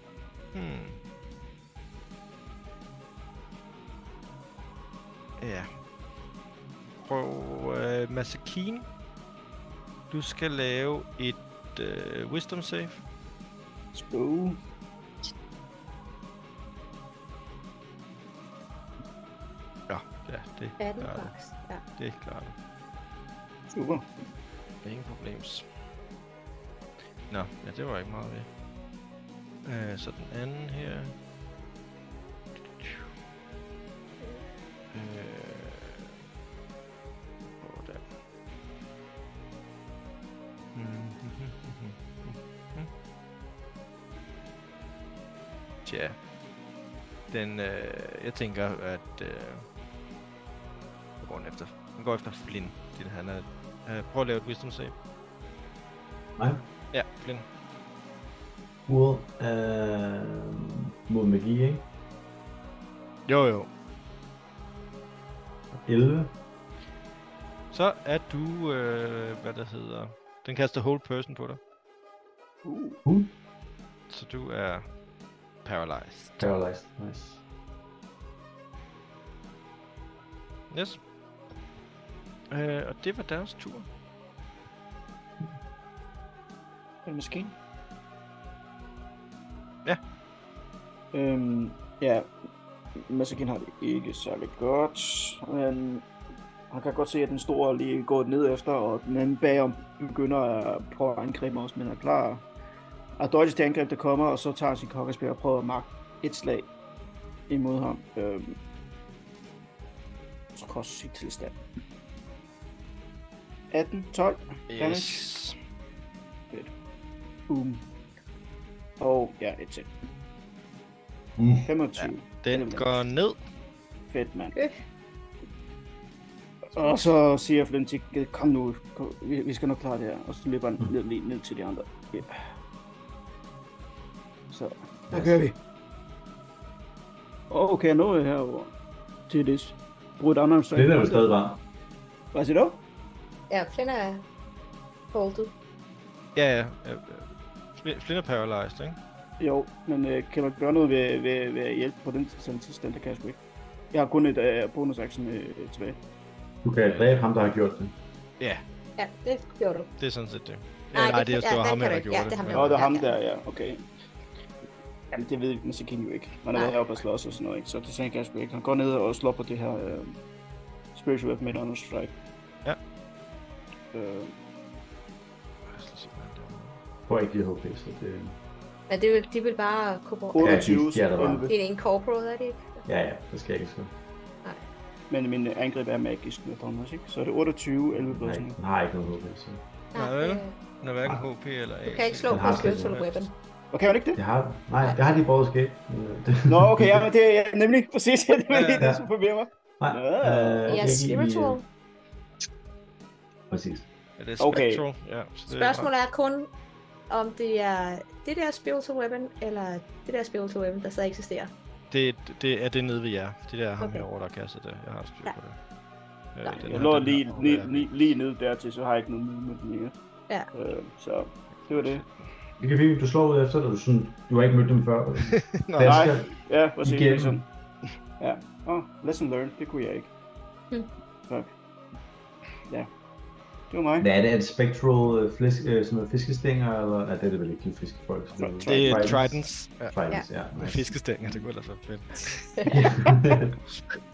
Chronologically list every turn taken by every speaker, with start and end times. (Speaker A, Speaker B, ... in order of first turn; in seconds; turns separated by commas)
Speaker A: 0.5-1.0, Speaker A: 5.4-5.7, Speaker A: 7.0-8.9, Speaker A: 10.1-13.0, Speaker B: 13.9-14.6, Speaker A: 19.9-21.3, Speaker C: 20.8-21.8, Speaker A: 22.0-22.5, Speaker B: 23.7-24.1, Speaker A: 24.8-25.6, Speaker A: 27.3-28.5, Speaker A: 29.6-31.1, Speaker A: 32.7-33.1, Speaker A: 34.9-36.1, Speaker A: 37.6-38.1, Speaker A: 40.7-42.9, Speaker A: 45.9-46.2, Speaker A: 47.3-49.6, Speaker A: 51.2-54.9, Speaker D: 56.4-56.6, Speaker A: 56.9-57.5, Speaker D: 58.9-61.9, Speaker A: 63.3-63.7, Speaker D: 65.8-66.3, Speaker A: 67.7-71.6, Speaker B: 72.6-73.0, Speaker D: 73.0-73.3, Speaker A: 74.1-74.8, Speaker A: 75.6-76.5, Speaker D: 76.4-77.4, Speaker A: 80.7-81.0, Speaker A: 82.5-83.8, Speaker B: 87.0-87.5, Speaker B: 91.1-92.3, Speaker B: 93.0-96.1, Speaker B: 96.7-102.4, Speaker B: 103.2-106.7, Speaker B: 107.5-108.6, Speaker B: 110.5-111.5, Speaker B: 113.7-115.3, Speaker A: 114.7-115.5, Speaker B: 117.5-117.8, Speaker B: 119.0-119.9, Speaker D: 121.4-121.7, Speaker B: 121.7-123.0, Speaker A: 122.0-123.4, Speaker B: 124.1-124.5, Speaker B: 126.7-132.4, Speaker B: 134.5-135.6, Speaker D: 135.1-135.4, Speaker B: 137.5-138.7, Speaker B: 139.3-141.2, Speaker D: 140.7-141.6, Speaker B: 142.3-142.8, Speaker C: 143.5-144.2, Speaker C: 145.1-145.5, Speaker A: 146.3-149.0, Speaker B: 149.4-153.4, Speaker B: 153.9-156.0, Speaker D: 156.6-157.9, Speaker C: 159.0-159.9, Speaker A: 160.0-162.8, Speaker C: 160.9-163.1, Speaker B: 162.5-163.8, Speaker B: 165.1-170.1, Speaker B: 170.9-172.1, Speaker B: 173.9-174.3, Speaker A: 175.7-176.8, Speaker D: 177.1-178.4, Speaker C: 178.9-180.7, Speaker B: 180.3-181.5, Speaker D: 180.4-181.5, Speaker C: 181.5-182.8, Speaker D: 182.8-183.9, Speaker B: 185.1-188.6, Speaker D: 188.0-189.6, Speaker C: 189.9-190.6, Speaker A: 189.9-193.2, Speaker C: 191.8-193.3, Speaker D: 192.3-193.0, Speaker B: 193.7-194.2, Speaker D: 194.1-197.1, Speaker B: 196.5-201.0, Speaker A: 198.5-198.8, Speaker D: 198.8-199.1, Speaker D: 199.8-201.6, Speaker C: 200.7-201.6, Speaker D: 203.5-203.8, Speaker A: 204.2-205.9, Speaker B: 204.4-204.8, Speaker C: 205.5-206.5, Speaker C: 207.1-211.5, Speaker A: 211.9-215.6, Speaker C: 213.8-214.1, Speaker A: 216.3-218.1, Speaker B: 216.6-219.9, Speaker B: 220.5-222.0, Speaker D: 222.6-227.4, Speaker A: 225.3-226.1, Speaker B: 225.8-227.4, Speaker B: 228.2-230.1, Speaker B: 233.7-234.1, Speaker D: 234.0-240.9, Speaker B: 238.4-239.2, Speaker A: 238.7-239.9, Speaker A: 240.5-242.7, Speaker C: 242.6-243.0, Speaker D: 242.7-243.6